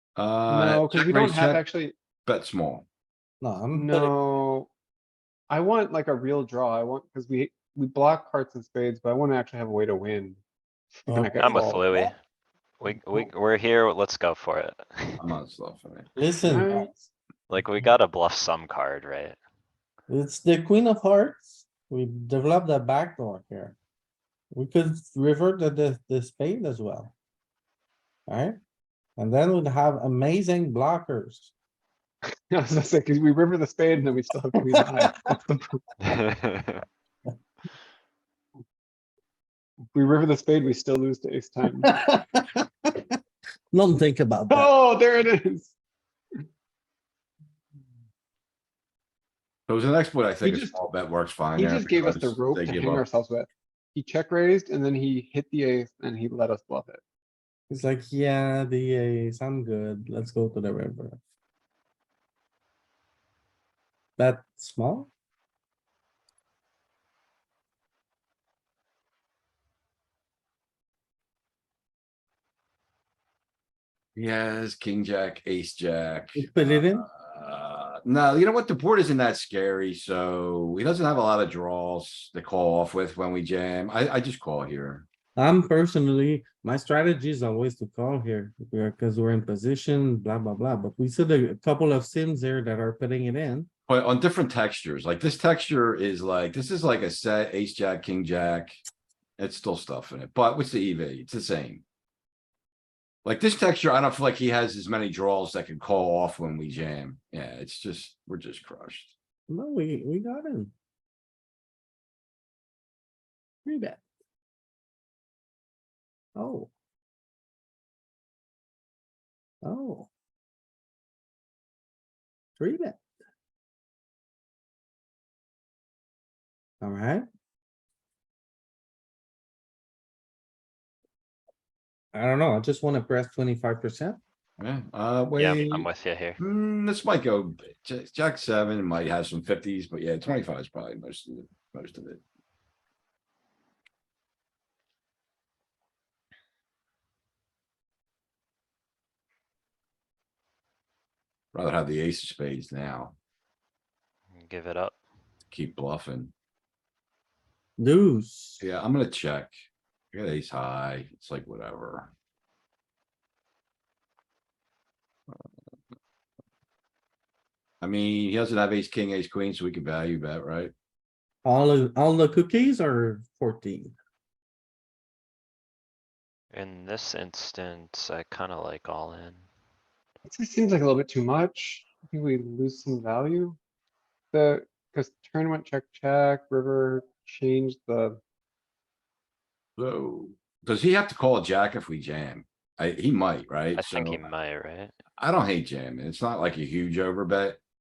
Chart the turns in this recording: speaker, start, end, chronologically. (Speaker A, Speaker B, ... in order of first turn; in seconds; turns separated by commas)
Speaker A: 0.1-1.6, Speaker B: 0.5-1.9, Speaker A: 2.2-2.9, Speaker C: 3.4-4.1, Speaker B: 3.7-4.7, Speaker B: 5.5-10.4, Speaker B: 10.9-12.1, Speaker C: 11.1-11.6, Speaker D: 11.4-12.2, Speaker D: 12.8-15.2, Speaker A: 15.2-16.1, Speaker C: 16.1-17.1, Speaker B: 16.4-16.9, Speaker D: 17.5-19.4, Speaker C: 20.1-23.8, Speaker C: 24.5-27.1, Speaker C: 28.3-28.6, Speaker C: 29.2-31.5, Speaker B: 32.5-35.6, Speaker C: 34.8-35.1, Speaker D: 36.0-36.8, Speaker B: 39.9-41.9, Speaker C: 41.8-43.0, Speaker C: 43.7-44.7, Speaker B: 44.5-45.7, Speaker A: 49.7-53.0, Speaker B: 50.4-50.7, Speaker B: 51.5-57.0, Speaker C: 57.7-61.2, Speaker C: 64.2-65.1, Speaker A: 74.2-85.0, Speaker C: 76.3-77.0, Speaker C: 85.4-93.7, Speaker A: 93.9-98.8, Speaker A: 99.4-101.8, Speaker A: 103.2-109.1, Speaker C: 109.5-110.7, Speaker C: 113.6-114.0, Speaker C: 116.3-116.7, Speaker C: 119.6-120.1, Speaker C: 122.6-123.0, Speaker C: 126.8-127.2, Speaker C: 132.1-134.2, Speaker A: 134.6-135.9, Speaker D: 135.3-136.4, Speaker A: 136.4-142.2, Speaker A: 151.5-153.1, Speaker D: 154.3-155.0, Speaker A: 155.5-156.3, Speaker C: 157.8-158.6, Speaker A: 158.6-159.5, Speaker A: 160.1-162.1, Speaker A: 167.8-170.7, Speaker C: 171.4-173.9, Speaker D: 176.5-179.4, Speaker B: 180.2-183.6, Speaker B: 184.3-188.2, Speaker A: 189.8-194.2, Speaker D: 193.7-194.9, Speaker A: 195.2-197.6